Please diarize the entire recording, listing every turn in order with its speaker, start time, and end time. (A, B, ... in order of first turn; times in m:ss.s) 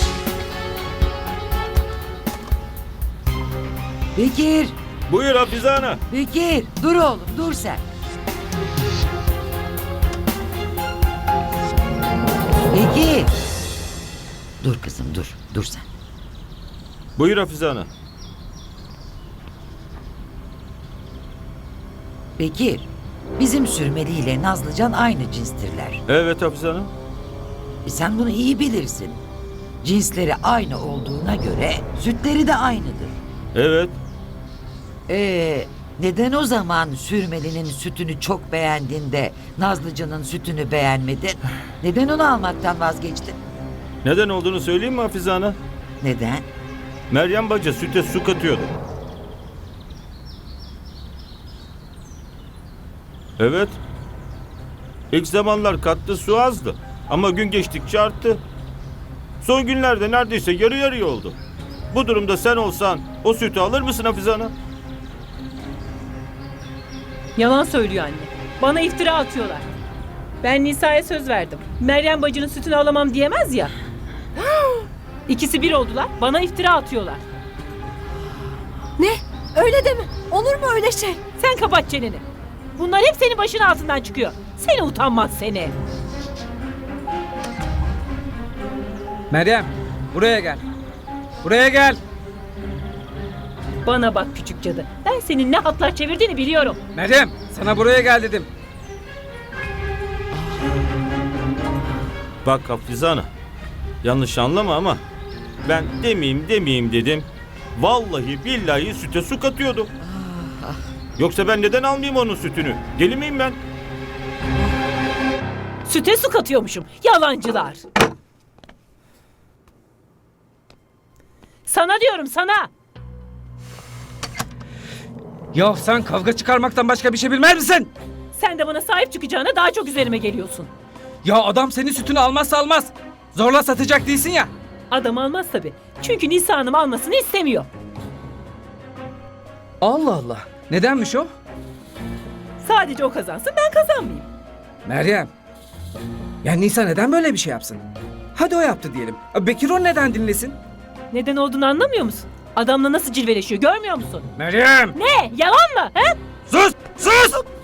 0:04.1-0:04.8 A
0:05.1-0:06.0 B
0:06.1-0:07.8 A
0:12.7-0:13.3 A
0:14.6-0:15.8 A
0:17.2-0:17.9 B
0:22.4-0:26.0 A
0:26.1-0:26.9 B
0:27.8-0:29.2 A
0:29.8-0:33.1 A
0:33.5-0:33.9 B
0:35.1-0:43.4 A
0:44.0-0:45.6 B
0:46.0-0:46.5 A
0:47.1-0:48.7 B
0:53.4-0:53.8 B
0:55.1-0:58.4 B
0:59.4-1:01.4 B
1:01.9-1:04.5 B
1:07.4-1:09.7 C
1:10.4-1:13.7 C
1:14.4-1:14.8 D
1:15.3-1:17.2 C
1:19.0-1:21.2 D
1:21.4-1:22.2 C
1:22.8-1:25.8 C
1:29.3-1:30.6 E
1:31.4-1:32.0 E
1:33.8-1:36.8 C
1:36.9-1:38.5 E
1:40.3-1:40.8 A
1:42.4-1:43.3 B
1:44.0-1:45.0 B
1:45.6-1:49.9 B
1:50.0-1:50.8 A
1:51.2-1:53.6 B
1:55.8-1:57.8 C
2:01.6-2:02.7 C
2:05.5-2:07.9 E
2:08.3-2:10.7 C
2:11.2-2:14.5 E
2:14.9-2:17.7 C
2:19.8-2:21.3 E
2:22.6-2:24.3 C
2:24.8-2:25.3 E
2:26.4-2:27.8 E
2:28.3-2:30.6 E
2:31.1-2:34.3 C
2:34.4-2:34.9 E
2:34.9-2:36.2 C
2:36.5-2:37.4 E